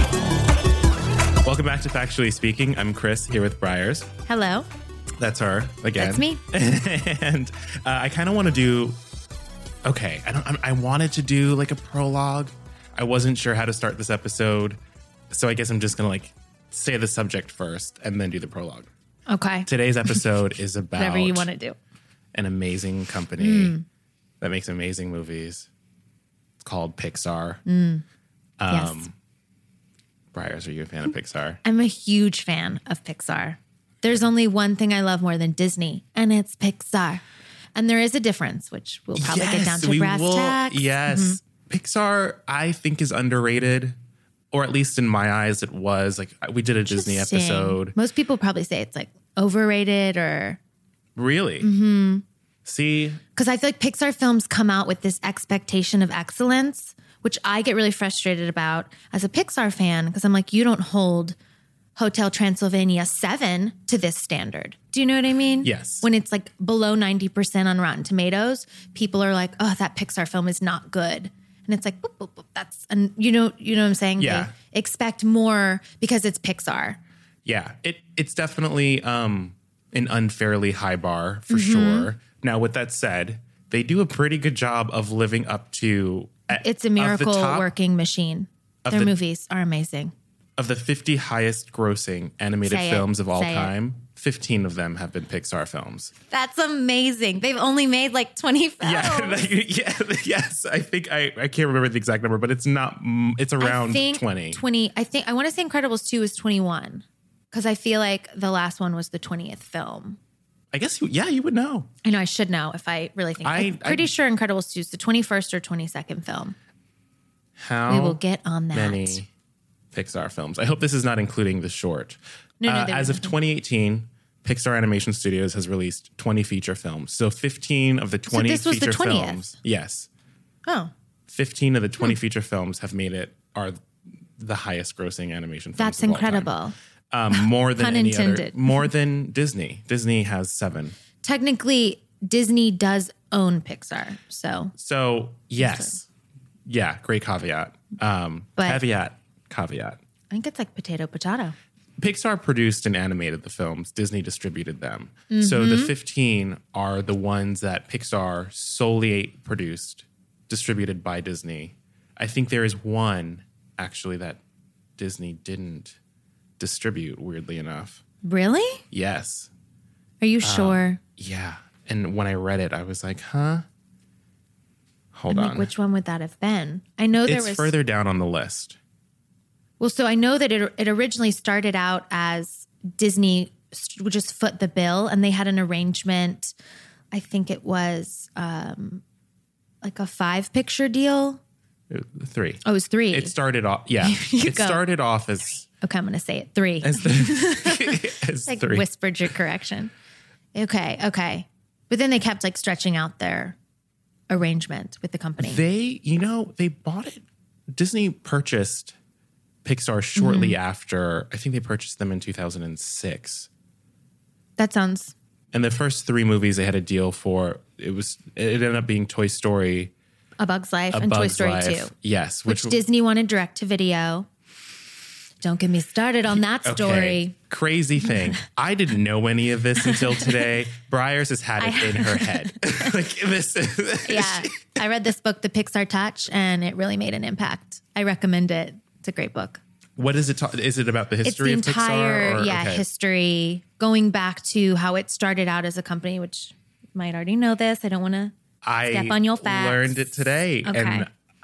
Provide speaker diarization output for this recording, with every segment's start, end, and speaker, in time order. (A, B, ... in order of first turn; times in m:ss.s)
0:01.4-0:04.1 A
0:04.2-0:04.7 B
0:05.2-0:09.0 A
0:06.0-0:06.4 B
0:09.8-0:14.8 A
0:15.3-0:18.9 A
0:19.3-0:19.7 B
0:19.6-0:21.5 A
0:21.0-0:21.8 B
0:22.3-0:23.8 A
0:23.4-0:23.8 B
0:24.4-0:25.7 A
0:26.6-0:27.6 A
0:27.6-0:28.0 B
0:28.6-0:29.1 A
0:28.7-0:29.0 B
0:30.3-0:31.6 A
0:31.6-0:37.2 B
0:37.8-0:41.4 B
0:39.1-0:44.0 A
0:44.5-0:48.0 A
0:46.9-0:50.6 B
0:51.2-0:51.7 A
0:51.6-0:52.2 B
0:52.6-0:53.2 A
0:53.4-1:01.4 B
1:02.0-1:17.0 B
1:05.6-1:06.0 A
1:14.2-1:14.5 A
1:17.4-1:27.7 A
1:21.5-1:22.1 B
1:26.5-1:30.1 B
1:28.8-1:29.1 A
1:30.6-1:36.1 A
1:32.6-1:33.7 B
1:36.3-1:39.5 B
1:38.8-1:44.6 A
1:43.6-1:50.2 B
1:50.7-1:51.9 A
1:52.0-1:56.5 B
1:53.4-1:54.1 A
1:57.6-1:58.2 A
1:57.9-1:59.2 B
1:58.7-1:59.3 A
1:59.9-2:10.1 A
2:02.6-2:03.4 B
2:08.3-2:09.5 B
2:10.6-2:10.9 B
2:11.3-2:13.8 A
2:14.4-2:16.5 A
2:15.8-2:16.7 B
2:17.1-2:21.0 A
2:17.3-2:18.9 B
2:21.2-2:24.7 B
2:24.7-2:26.1 A
2:25.6-2:25.9 B
2:26.6-2:30.0 A
2:30.3-2:31.5 B
2:32.0-2:44.4 A
2:35.3-2:35.9 B
2:45.0-2:46.0 A
2:46.6-2:48.0 A
2:48.2-2:48.8 B
2:48.9-2:49.5 A
2:50.2-2:51.0 B
2:50.4-2:53.6 A
2:55.1-2:55.7 A
2:55.3-2:57.7 B
2:57.2-2:58.8 A
2:59.8-3:06.5 B
3:07.1-3:09.0 B
3:09.8-3:11.4 B
3:11.9-3:15.6 A
3:12.6-3:13.3 B
3:14.0-3:14.8 B
3:15.8-3:19.9 B
3:16.8-3:19.3 A
3:20.5-3:23.6 B
3:24.3-3:25.6 B
3:25.4-3:29.0 A
3:29.6-3:33.5 A
3:30.2-3:30.6 B
3:34.6-3:35.1 B
3:35.5-3:39.9 A
3:40.4-3:41.9 B
3:40.9-3:42.8 A
3:42.5-3:44.3 B
3:45.4-3:47.3 B
3:46.5-3:54.5 A
3:49.8-3:50.5 B
3:51.6-3:52.7 B
3:54.0-3:59.6 B
4:00.0-4:02.8 A
4:01.2-4:08.3 B
4:08.6-4:11.1 A
4:08.9-4:11.1 B